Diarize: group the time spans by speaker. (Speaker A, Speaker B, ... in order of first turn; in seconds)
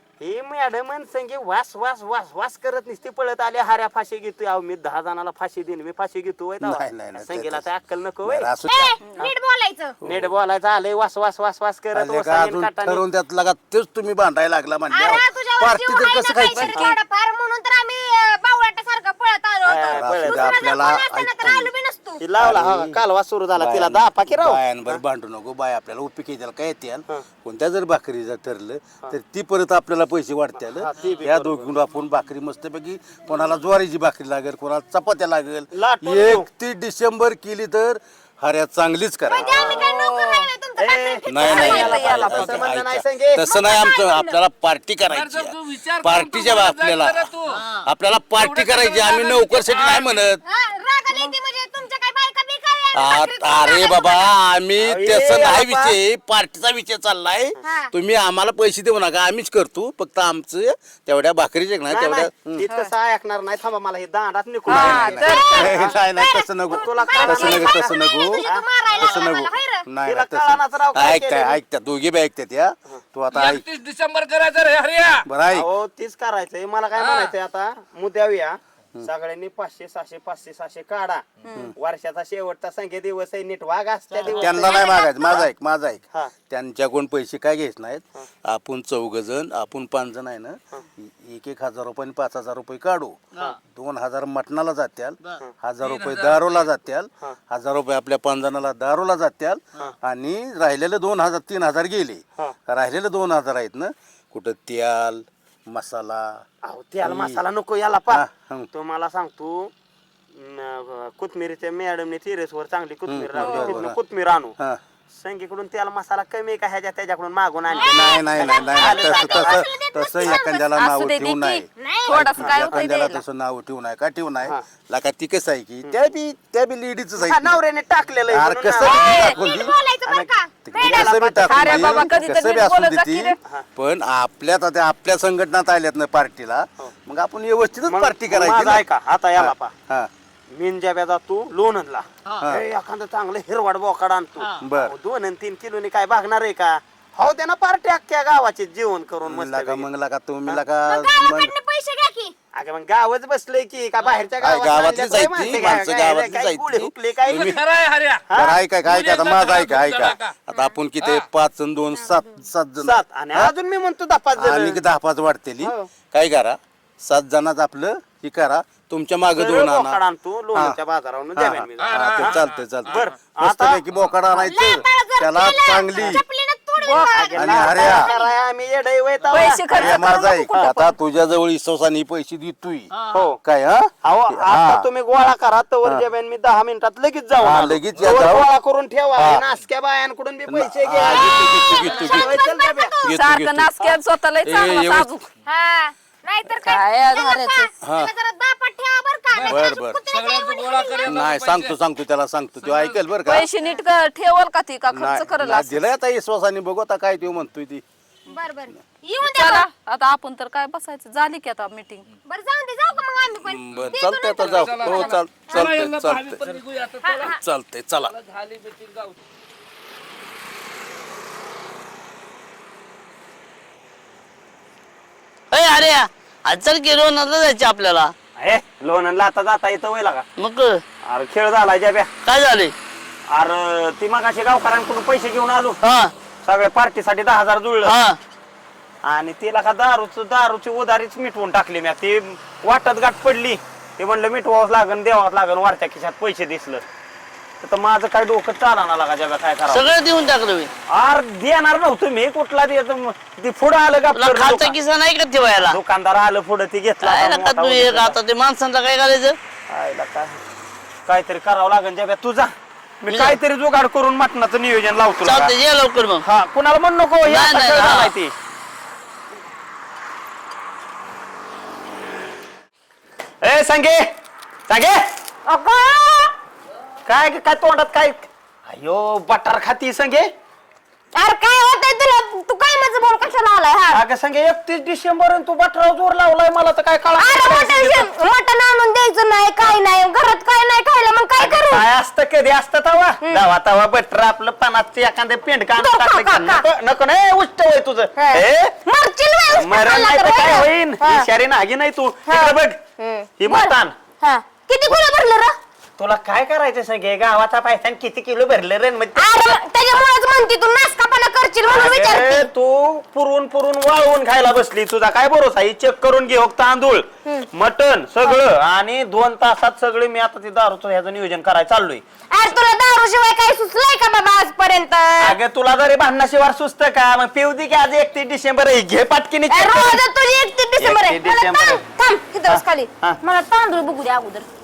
Speaker A: 0.2-8.5, 10.0-13.0, 19.6-20.5, 22.2-25.0, 30.6-31.7, 35.7-36.5, 39.4-39.9, 40.8-43.5, 54.8-55.9, 61.9-66.0, 66.7-69.3, 70.0-71.6, 75.5-81.2, 81.8-85.4, 106.6-109.7, 110.3-114.5, 115.1-119.7, 122.4-122.9, 127.2-132.1, 137.9-139.7, 140.5-149.8, 152.5-157.5, 158.3-158.6, 162.8-164.8, 165.6-165.9, 169.3-172.4, 172.9-173.8, 176.8-180.7, 184.0-192.9, 228.4-230.2, 231.0-232.1, 233.3-235.8, 236.4-237.9, 239.0-246.8, 247.6-249.9, 250.9-254.7, 255.7-258.1, 259.7-260.4, 261.1-265.5, 266.2-268.3, 273.4-274.1, 274.7-275.0, 277.1-280.3, 283.9-288.1, 291.4-298.8, 299.5-302.8, 303.4-303.9, 306.0-310.0, 311.7-322.0, 325.2-330.0, 330.8-331.8, 332.5-333.2
Speaker B: 6.6-7.6, 8.2-8.9, 10.0-10.3, 11.9-16.8, 19.9-21.7, 22.4-23.0, 23.6-39.6, 41.3-47.3, 47.8-50.4, 52.9-62.6, 64.7-73.6, 75.2-75.7, 84.3-106.4, 107.0-107.4, 108.1-108.7, 113.1-114.0, 117.8-127.6, 128.3-129.7, 130.7-138.8, 139.3-140.1, 144.6-144.9, 149.2-151.5, 154.4-157.6, 158.3-163.5, 164.4-170.0, 171.3-176.2, 177.3-178.1, 179.7-182.9, 183.4-184.8, 187.4-188.4, 189.2-189.4, 190.5-192.4, 193.0-193.7, 194.4-195.1, 197.8-198.1, 199.4-200.0, 201.0-203.5, 204.9-207.8, 213.4-216.4, 217.2-218.1
Speaker C: 8.7-10.0, 14.9-22.2, 39.3-41.5, 43.6-44.3, 50.5-54.2, 57.6-57.9, 65.2-69.8, 117.7-120.6, 121.8-122.1, 128.8-131.1, 150.8-152.3, 162.0-162.3, 174.3-178.3, 191.2-193.1, 195.5-201.1, 208.3-209.6, 212.3-215.5, 217.0-217.4, 275.5-276.3, 281.1-284.0, 287.2-291.9, 295.8-296.6, 298.1-301.3, 302.3-305.5, 309.1-312.5, 322.3-325.4, 329.5-334.4
Speaker D: 16.5-16.9, 39.7-40.5, 41.5-42.4, 62.6-62.9, 64.7-65.6, 113.4-113.8, 120.8-123.2, 131.4-133.4, 179.3-181.0, 193.1-195.3, 196.6-197.7, 203.2-205.8, 209.2-212.0
Speaker E: 45.1-47.5, 48.4-50.2, 73.3-75.2, 77.0-77.3, 95.8-96.7, 157.3-158.2, 158.8-160.3, 161.0-161.2, 171.8-173.1, 199.3-201.7, 202.6-203.0, 214.4-217.4, 218.0-219.1
Speaker F: 47.5-47.9, 182.9-183.3, 225.5-228.1, 230.4-230.8, 232.2-232.7, 235.8-236.1, 237.8-238.2, 249.7-250.7, 254.1-255.8, 257.0-259.4, 263.1-263.4, 265.2-266.2, 267.2-268.1